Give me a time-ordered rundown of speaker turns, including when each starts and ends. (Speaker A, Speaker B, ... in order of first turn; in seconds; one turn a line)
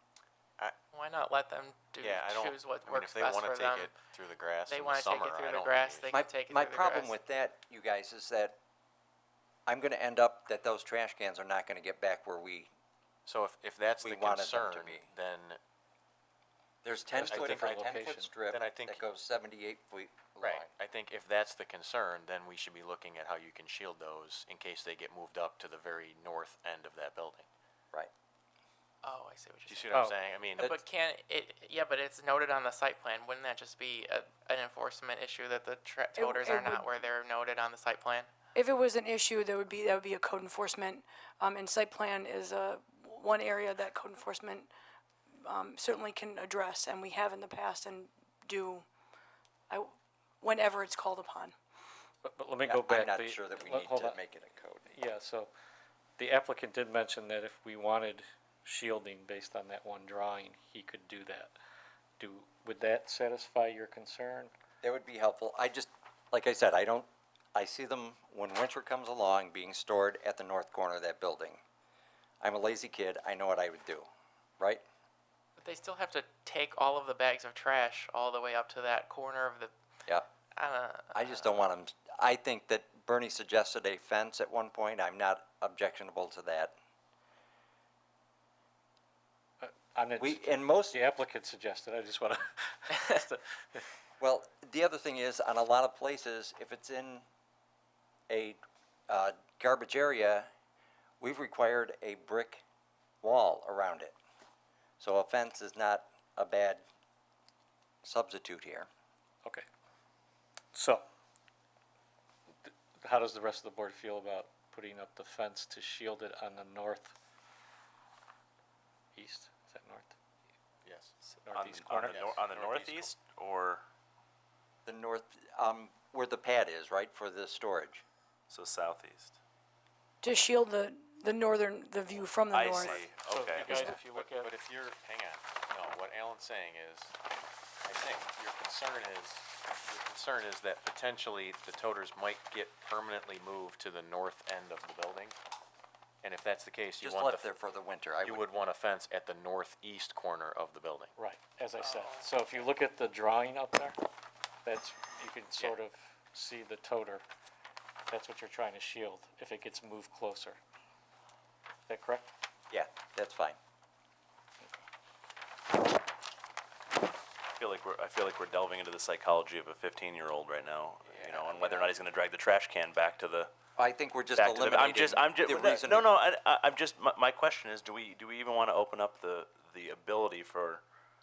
Speaker A: 0.9-4.0
Speaker B: 2.0-6.1
Speaker A: 4.7-7.1
Speaker C: 6.1-8.6
Speaker C: 9.7-12.7
Speaker B: 13.2-15.6
Speaker C: 14.0-15.1
Speaker C: 16.8-20.7
Speaker D: 17.1-18.3
Speaker B: 17.2-19.0
Speaker B: 20.4-27.5
Speaker A: 29.0-30.0
Speaker B: 29.6-30.8
Speaker A: 30.6-38.3
Speaker E: 36.2-36.9
Speaker E: 38.5-44.7
Speaker E: 45.4-48.9
Speaker E: 49.7-51.5
Speaker D: 52.2-54.2
Speaker C: 52.6-54.8
Speaker D: 54.8-55.5
Speaker D: 56.2-61.5
Speaker D: 62.2-64.5
Speaker C: 64.8-71.6
Speaker C: 72.4-74.1
Speaker A: 75.6-79.7
Speaker A: 80.5-81.4
Speaker C: 81.1-86.7
Speaker D: 89.6-93.8
Speaker C: 90.2-91.0
Speaker C: 94.2-97.2
Speaker C: 98.3-100.5
Speaker C: 101.2-102.6
Speaker C: 103.2-104.2
Speaker C: 105.0-106.8
Speaker C: 108.0-108.9
Speaker D: 110.7-111.0
Speaker D: 112.6-117.2
Speaker D: 119.2-120.1
Speaker B: 120.8-121.1
Speaker D: 121.4-122.3
Speaker F: 121.5-123.8
Speaker B: 122.0-123.2
Speaker C: 124.8-128.0
Speaker F: 128.5-129.4
Speaker E: 130.2-133.1
Speaker F: 132.5-133.9
Speaker D: 133.2-134.5
Speaker B: 133.5-137.1
Speaker B: 137.8-145.3
Speaker B: 146.2-147.5
Speaker C: 147.0-148.5
Speaker B: 148.2-151.1
Speaker D: 151.2-154.0
Speaker A: 151.8-152.3
Speaker D: 154.6-157.2
Speaker D: 158.1-160.6
Speaker D: 161.9-162.3
Speaker C: 162.7-163.6
Speaker F: 167.6-173.5
Speaker C: 171.5-171.9
Speaker C: 173.8-176.0
Speaker F: 174.3-180.8